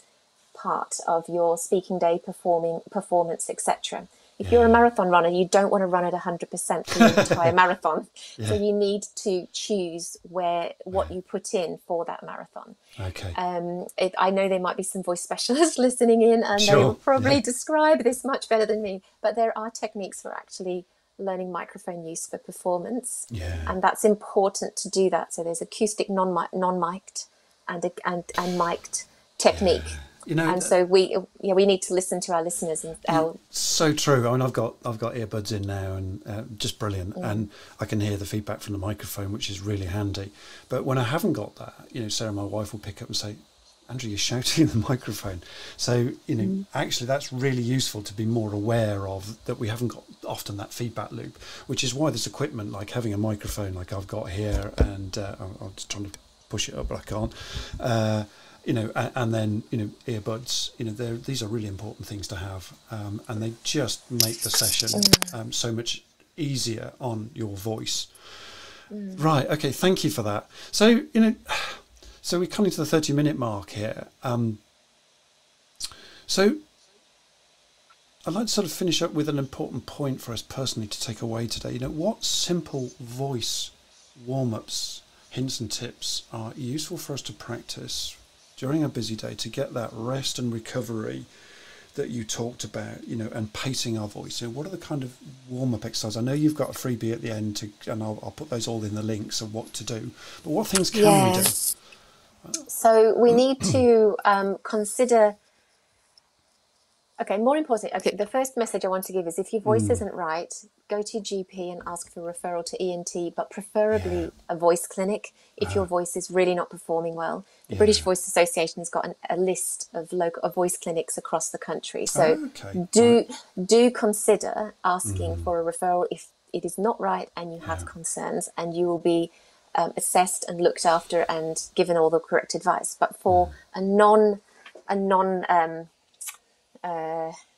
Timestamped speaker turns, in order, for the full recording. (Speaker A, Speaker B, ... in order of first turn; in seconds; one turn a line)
Speaker A: 0.5-12.8
Speaker B: 4.4-4.8
Speaker B: 6.9-7.6
Speaker B: 13.0-13.4
Speaker A: 13.3-33.4
Speaker B: 16.6-17.4
Speaker B: 23.3-23.8
Speaker B: 29.5-30.7
Speaker B: 33.1-68.1
Speaker A: 37.2-37.4
Speaker A: 64.9-65.3
Speaker A: 68.9-69.2
Speaker B: 69.2-74.6
Speaker B: 76.3-76.6
Speaker B: 78.3-91.3
Speaker B: 92.0-101.6
Speaker A: 100.9-101.6
Speaker A: 102.7-105.4
Speaker B: 103.3-103.8
Speaker A: 107.2-135.9
Speaker B: 109.7-110.0
Speaker B: 113.9-114.3
Speaker B: 117.7-118.1
Speaker B: 122.1-123.2
Speaker B: 125.0-125.5
Speaker B: 127.6-127.9
Speaker B: 133.3-133.5
Speaker A: 136.8-137.4